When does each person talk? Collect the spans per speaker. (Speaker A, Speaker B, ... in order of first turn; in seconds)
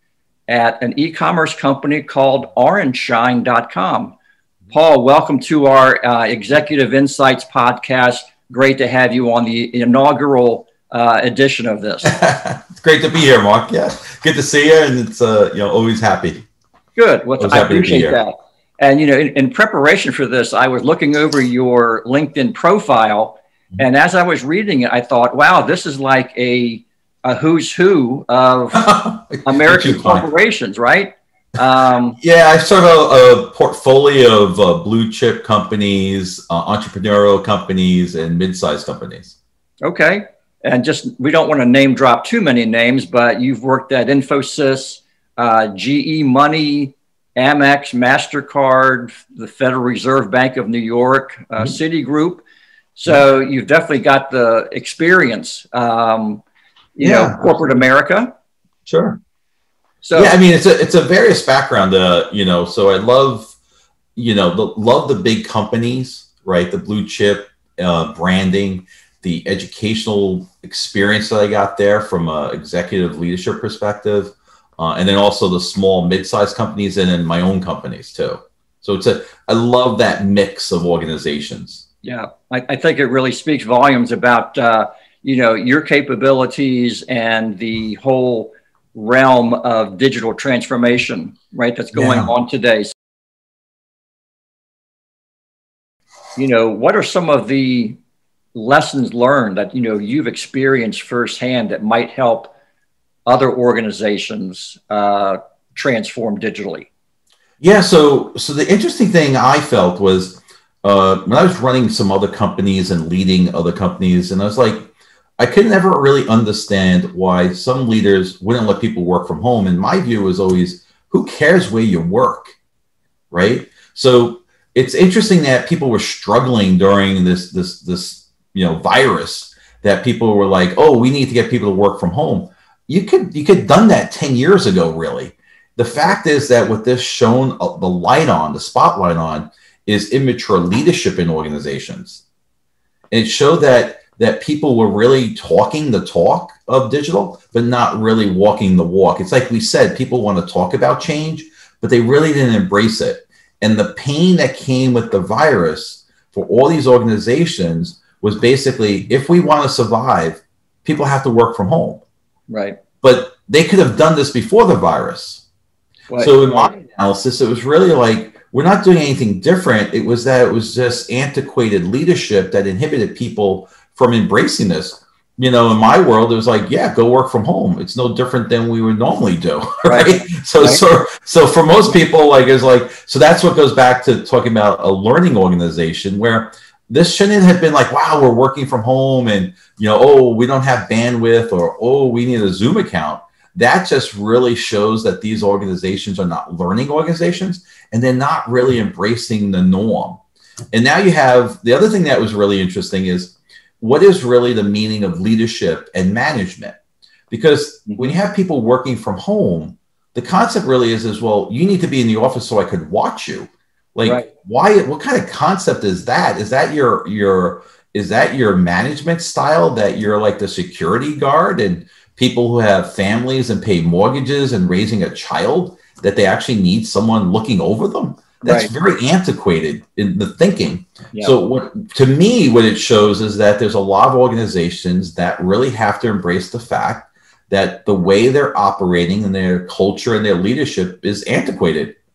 Speaker A: 0.5-4.2, 4.7-12.1, 17.0-28.9, 29.4-32.2, 39.8-52.4, 53.0-56.4, 57.0-58.3, 60.0-60.4, 82.0-92.9, 96.4-98.0, 98.5-102.5, 103.3-106.9, 162.5-162.8, 166.1-166.7, 179.8-180.8, 207.9-208.2, 214.0-214.3, 228.4-228.7
Speaker B: 12.1-16.4, 17.4-18.2, 28.8-30.3, 32.2-39.4, 57.0-57.8, 58.9-59.2, 60.1-63.5, 64.2-81.8, 91.9-92.3, 107.6-122.5, 123.3-142.2, 143.1-162.0, 163.0-165.4, 166.2-200.2, 200.7-206.8, 207.3-242.0